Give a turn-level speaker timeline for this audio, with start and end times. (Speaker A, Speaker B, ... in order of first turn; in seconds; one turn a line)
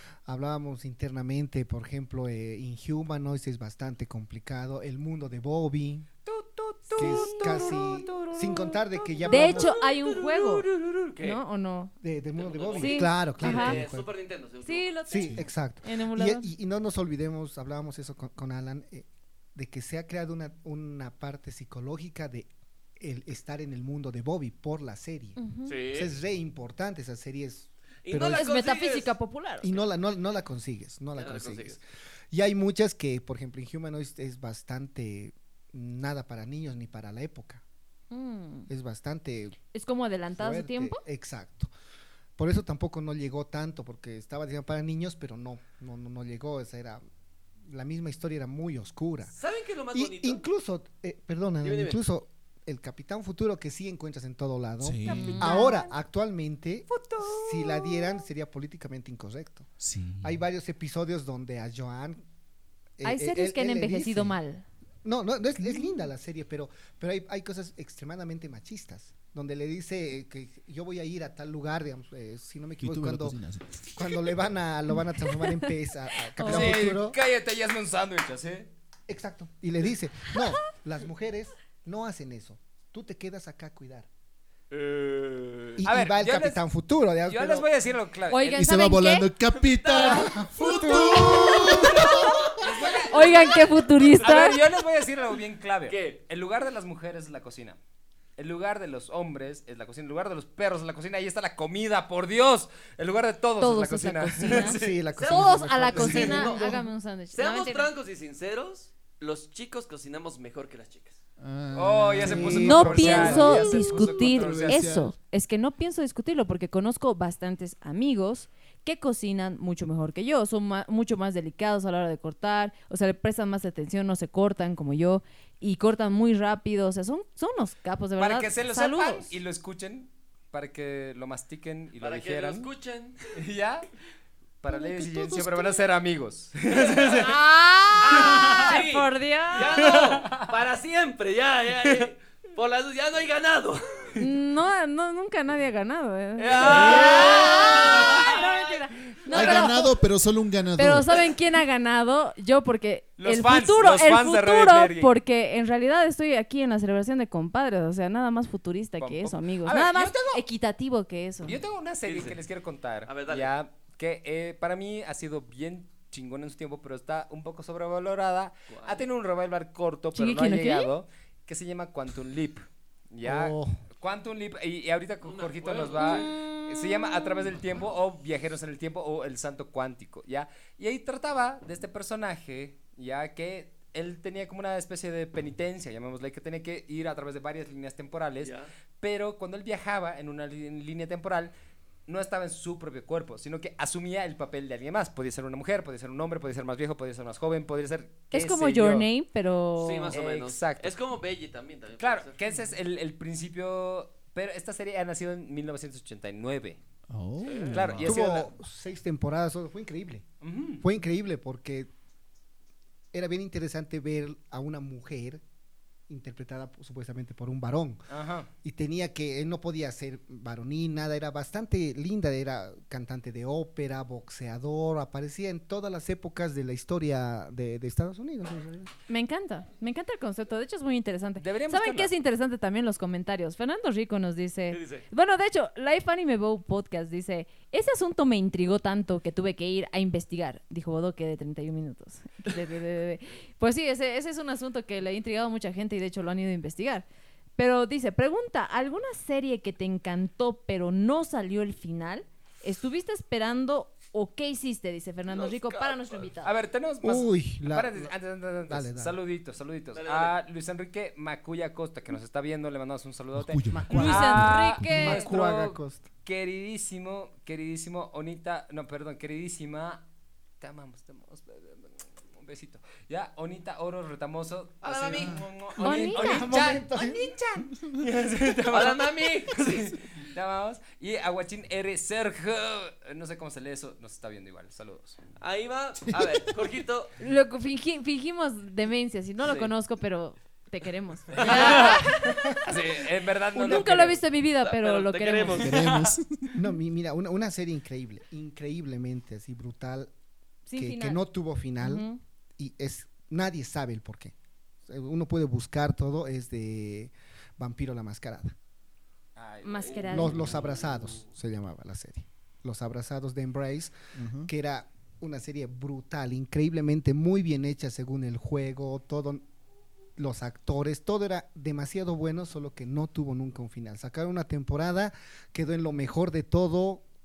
Speaker A: 0.2-6.1
Speaker B: 6.2-8.9
Speaker C: 7.0-7.8
Speaker A: 7.0-9.8
Speaker D: 9.2-11.4
Speaker C: 9.3-11.9
Speaker A: 12.0-14.1
Speaker D: 12.3-14.9
Speaker C: 12.7-13.8
Speaker C: 14.6-16.5
Speaker A: 15.1-25.4
Speaker C: 25.4-25.8
Speaker D: 25.7-26.1
Speaker A: 25.9-28.5
Speaker D: 28.0-29.1
Speaker C: 28.2-29.7
Speaker A: 29.6-37.6
Speaker D: 31.1-31.8
Speaker C: 38.1-38.7
Speaker A: 38.7-39.6
Speaker C: 39.7-41.0
Speaker A: 40.3-41.7
Speaker A: 42.4-47.0
Speaker A: 47.6-49.3
Speaker D: 49.3-50.5
Speaker A: 49.9-59.7
Speaker D: 51.6-52.0
Speaker E: 54.8-55.6
Speaker C: 55.1-55.9
Speaker C: 56.9-58.2
Speaker E: 59.8-60.5
Speaker A: 60.2-62.2
Speaker A: 63.0-64.3
Speaker C: 63.0-64.6
Speaker A: 65.0-73.4
Speaker C: 65.7-66.1
Speaker E: 72.8-73.8
Speaker A: 73.9-77.2
Speaker C: 76.4-76.8
Speaker B: 76.4-78.7
Speaker A: 79.1-84.1
Speaker D: 84.7-85.8
Speaker A: 85.8-87.7
Speaker B: 85.8-86.6
Speaker B: 87.2-88.6
Speaker C: 88.3-89.3
Speaker E: 88.5-92.5
Speaker D: 89.5-90.3
Speaker A: 90.2-91.8
Speaker C: 90.6-92.5
Speaker D: 91.7-94.6
Speaker B: 92.6-93.5
Speaker C: 93.1-94.6
Speaker B: 94.2-97.8
Speaker D: 95.9-96.2
Speaker B: 98.4-105.0
Speaker C: 103.6-107.9
Speaker A: 104.5-106.8
Speaker D: 105.1-106.8
Speaker B: 106.0-106.3
Speaker D: 107.3-111.2
Speaker E: 111.4-115.1
Speaker B: 111.7-114.9
Speaker A: 112.2-113.6
Speaker C: 112.5-129.4
Speaker B: 128.2-132.7
Speaker D: 132.0-133.2
Speaker B: 133.3-133.9
Speaker B: 134.6-137.4
Speaker E: 134.7-135.8
Speaker D: 136.8-137.1
Speaker C: 137.2-140.1
Speaker D: 138.0-144.2
Speaker B: 138.1-138.7
Speaker B: 139.7-140.5
Speaker C: 144.2-150.0
Speaker D: 146.4-149.7
Speaker B: 147.0-147.3
Speaker E: 149.3-151.1
Speaker C: 150.8-161.6
Speaker B: 153.2-155.1
Speaker B: 159.0-160.4
Speaker B: 161.4-191.5
Speaker D: 162.0-162.4
Speaker D: 163.1-163.5
Speaker D: 168.7-169.0
Speaker C: 170.1-170.9
Speaker A: 173.2-173.8
Speaker D: 175.2-176.3
Speaker C: 176.0-177.5
Speaker D: 188.4-188.7
Speaker B: 192.1-199.1
Speaker C: 198.3-200.2
Speaker D: 199.8-202.4
Speaker B: 200.1-200.9
Speaker B: 202.0-206.8
Speaker E: 207.1-208.2
Speaker D: 207.4-207.8
Speaker B: 207.7-208.5
Speaker A: 208.0-210.2
Speaker B: 210.4-210.8
Speaker A: 210.8-211.9
Speaker A: 213.1-215.4
Speaker A: 216.1-218.1
Speaker B: 218.1-218.5
Speaker A: 218.6-228.9
Speaker C: 229.1-247.1
Speaker B: 231.4-232.1
Speaker D: 234.7-235.1
Speaker C: 247.6-256.5
Speaker D: 255.3-256.3
Speaker B: 256.4-270.0
Speaker A: 257.0-258.1
Speaker A: 258.7-259.1
Speaker D: 259.9-260.3
Speaker E: 263.3-264.9
Speaker A: 263.7-266.1
Speaker C: 263.9-265.3
Speaker B: 270.6-276.8
Speaker D: 274.8-275.4
Speaker E: 275.1-275.4
Speaker A: 275.8-277.4
Speaker C: 275.8-277.7
Speaker B: 278.0-285.2
Speaker D: 278.7-279.9
Speaker D: 285.4-287.1
Speaker E: 286.1-286.5
Speaker C: 287.2-292.6
Speaker D: 289.4-289.7
Speaker D: 291.3-292.0
Speaker B: 291.4-292.1
Speaker B: 292.6-294.2
Speaker C: 293.5-295.8
Speaker D: 294.6-295.7
Speaker E: 295.6-296.6
Speaker B: 295.7-296.1
Speaker A: 296.5-300.1
Speaker C: 300.7-301.2
Speaker A: 300.8-302.1
Speaker C: 301.8-302.2
Speaker A: 302.6-304.3
Speaker A: 304.9-308.5
Speaker B: 309.4-310.0
Speaker C: 309.6-310.5
Speaker D: 309.9-311.2
Speaker A: 310.1-313.9
Speaker E: 314.1-314.5
Speaker A: 314.4-319.5
Speaker A: 320.2-327.0